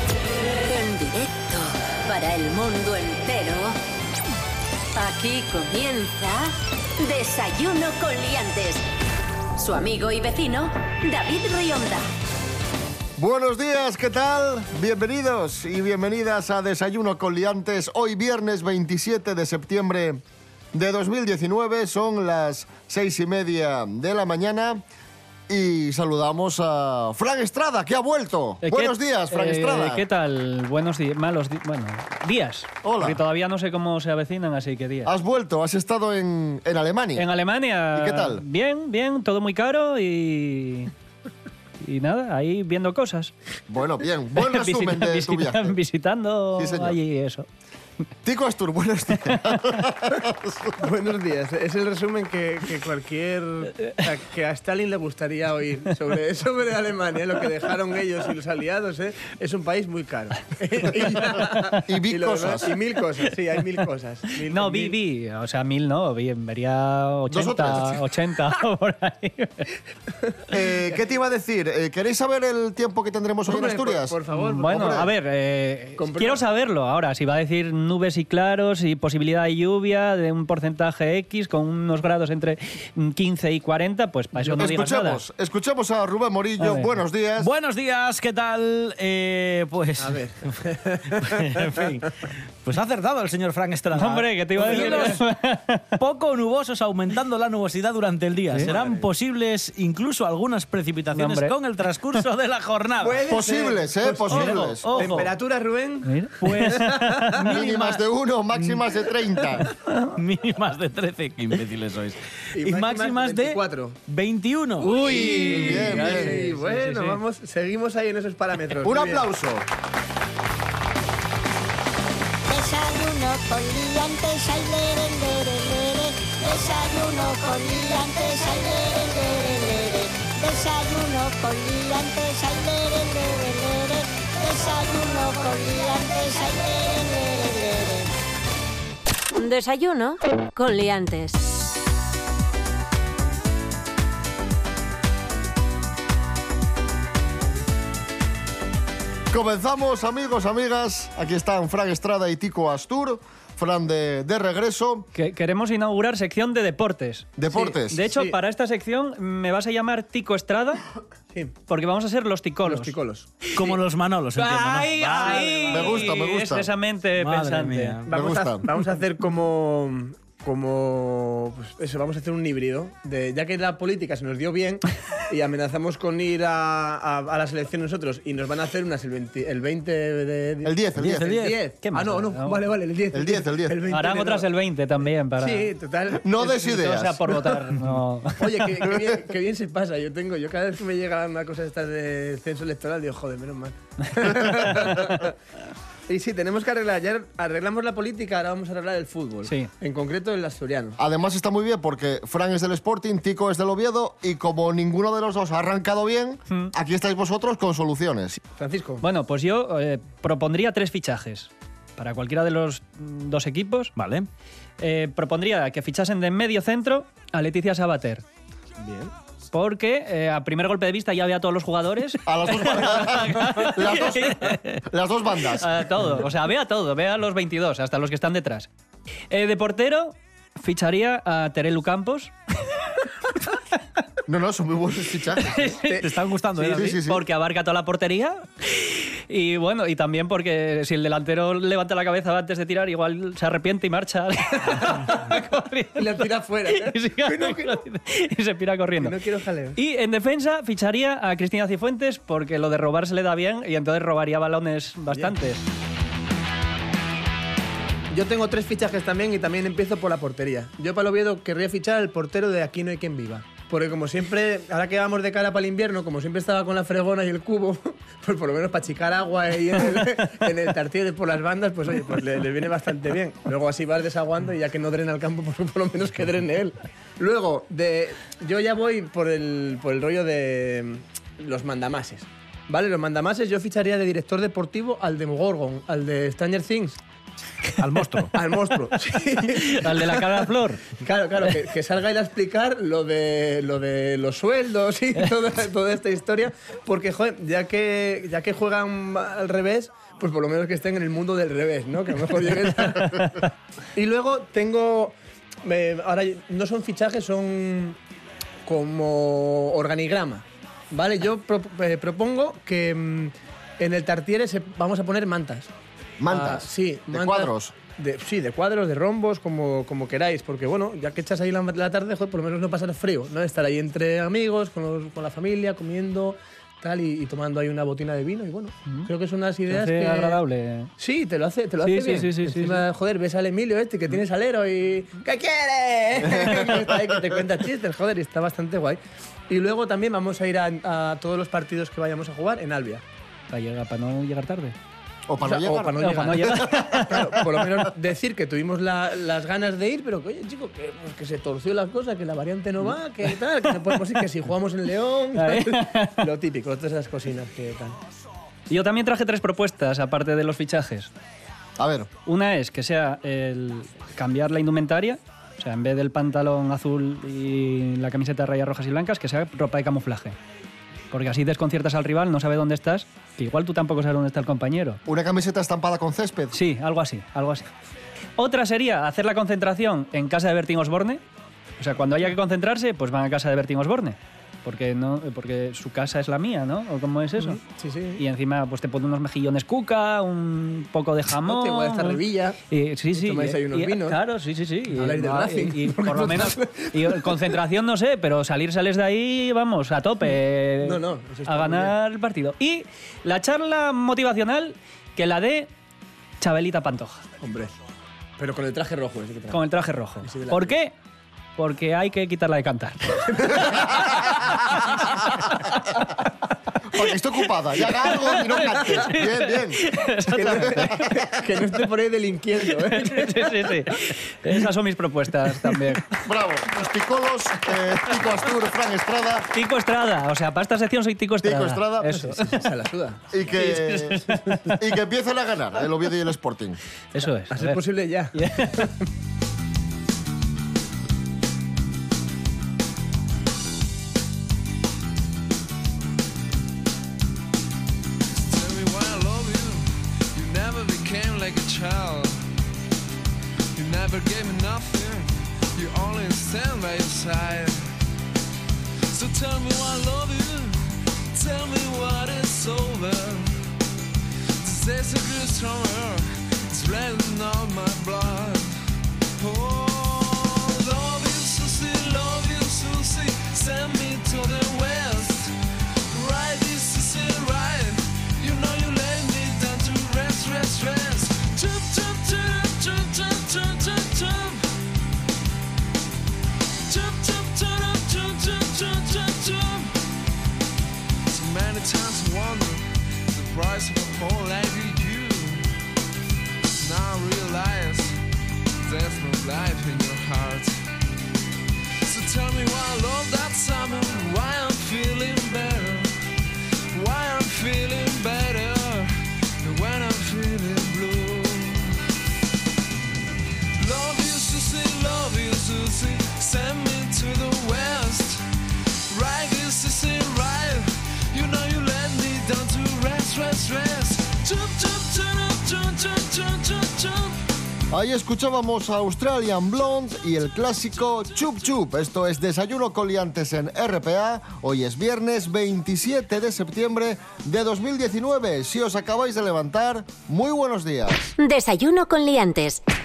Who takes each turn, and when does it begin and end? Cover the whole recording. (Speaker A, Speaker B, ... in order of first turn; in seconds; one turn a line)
Speaker A: 0.6-3.7
Speaker A: 5.0-6.5
Speaker A: 7.0-8.8
Speaker A: 9.6-12.0
Speaker B: 13.2-20.2
Speaker B: 20.7-24.8
Speaker B: 25.5-30.0
Speaker C: 28.6-35.1
Speaker B: 32.8-33.2
Speaker B: 35.0-37.3
Speaker C: 37.1-40.9
Speaker B: 37.9-38.4
Speaker C: 41.8-43.3
Speaker B: 43.7-45.8
Speaker C: 44.3-47.5
Speaker B: 46.6-47.0
Speaker B: 48.2-50.8
Speaker D: 50.8-65.0
Speaker B: 61.8-62.7
Speaker C: 64.5-69.7
Speaker B: 67.3-68.0
Speaker B: 70.5-75.1
Speaker D: 73.5-75.0
Speaker C: 74.3-85.2
Speaker D: 76.0-76.4
Speaker B: 84.6-87.5
Speaker C: 86.6-86.9
Speaker E: 87.4-90.6
Speaker D: 90.0-91.8
Speaker E: 91.1-95.2
Speaker C: 93.9-96.0
Speaker D: 94.6-95.2
Speaker E: 96.0-103.3
Speaker D: 98.6-99.1
Speaker C: 101.1-101.5
Speaker D: 103.0-107.5
Speaker B: 103.3-105.0
Speaker E: 104.3-105.3
Speaker C: 104.3-105.2
Speaker C: 106.0-107.3
Speaker E: 106.4-108.9
Speaker B: 107.5-109.7
Speaker E: 110.1-115.4
Speaker D: 112.5-114.0
Speaker C: 114.8-117.2
Speaker D: 114.8-119.2
Speaker B: 115.4-116.3
Speaker B: 118.8-119.7
Speaker F: 122.5-138.1
Speaker A: 139.4-141.4
Speaker B: 149.3-155.1
Speaker C: 155.1-157.4
Speaker B: 157.4-158.1
Speaker D: 157.5-158.3
Speaker C: 157.9-160.8
Speaker C: 161.7-162.9
Speaker D: 162.6-163.5
Speaker E: 163.5-165.9
Speaker C: 164.4-168.0
Speaker B: 165.7-166.7
Speaker E: 167.2-168.1
Speaker D: 168.1-184.5
Speaker B: 168.1-168.7
Speaker B: 180.6-181.3
Speaker E: 181.0-181.6
Speaker C: 181.8-182.6
Speaker B: 183.1-183.8
Speaker C: 183.9-185.7
Speaker D: 185.4-186.7
Speaker B: 186.2-187.2
Speaker C: 186.4-188.7
Speaker D: 188.4-195.3
Speaker B: 188.9-189.2
Speaker D: 196.1-201.0
Speaker C: 199.4-199.7
Speaker B: 201.0-208.4
Speaker D: 208.5-209.0
Speaker C: 209.0-213.9
Speaker E: 213.9-214.3
Speaker C: 214.8-218.2
Speaker D: 218.8-219.1
Speaker C: 219.5-224.8
Speaker B: 222.2-225.8
Speaker C: 225.6-228.7
Speaker C: 229.3-232.3
Speaker B: 234.2-235.6
Speaker C: 235.4-236.0
Speaker E: 235.9-236.9
Speaker C: 236.6-249.2
Speaker B: 236.7-237.2
Speaker D: 244.9-245.2
Speaker D: 245.9-247.8
Speaker D: 249.0-249.8
Speaker C: 249.7-255.6
Speaker D: 258.1-287.0
Speaker E: 287.8-288.3
Speaker D: 288.3-290.3
Speaker C: 289.5-290.8
Speaker D: 290.9-308.0
Speaker D: 308.6-315.7
Speaker B: 316.2-317.8
Speaker D: 316.3-330.4
Speaker C: 329.7-330.9
Speaker D: 331.0-343.0
Speaker C: 331.8-332.8
Speaker C: 336.3-336.6
Speaker C: 343.5-344.7
Speaker B: 345.3-347.3
Speaker D: 345.4-358.0
Speaker C: 346.0-347.3
Speaker C: 355.3-356.2
Speaker C: 358.7-361.1
Speaker B: 361.8-362.1
Speaker C: 362.2-370.4
Speaker C: 371.1-375.0
Speaker B: 375.1-376.6
Speaker C: 376.5-377.7
Speaker C: 378.4-381.2
Speaker C: 381.8-387.6
Speaker D: 387.4-388.2
Speaker C: 388.2-405.7
Speaker D: 391.4-392.6
Speaker D: 393.1-394.2
Speaker D: 394.9-397.4
Speaker D: 400.8-401.9
Speaker C: 406.4-407.2
Speaker D: 407.4-407.7
Speaker D: 408.4-409.6
Speaker C: 409.5-410.9
Speaker D: 410.2-410.7
Speaker C: 411.6-414.1
Speaker D: 413.4-413.8
Speaker C: 414.8-415.7
Speaker B: 416.9-419.8
Speaker C: 418.0-421.1
Speaker D: 420.3-423.6
Speaker B: 420.4-420.9
Speaker C: 422.7-426.2
Speaker B: 426.2-429.5
Speaker C: 429.5-432.6
Speaker B: 431.4-432.1
Speaker D: 432.2-433.3
Speaker B: 433.3-434.2
Speaker C: 433.6-434.8
Speaker B: 434.8-436.8
Speaker C: 437.1-437.8
Speaker D: 437.5-438.9
Speaker C: 438.3-438.9
Speaker G: 448.3-452.5
Speaker G: 453.8-457.9
Speaker G: 459.1-463.6
Speaker G: 464.6-468.8
Speaker G: 469.4-475.5
Speaker G: 476.1-484.7
Speaker G: 486.9-490.0
Speaker G: 491.3-495.7
Speaker G: 496.8-498.2
Speaker G: 498.8-500.9
Speaker G: 502.1-506.1
Speaker G: 506.9-512.0
Speaker G: 513.8-518.4
Speaker G: 519.1-527.4
Speaker B: 527.9-541.4
Speaker A: 541.4-542.8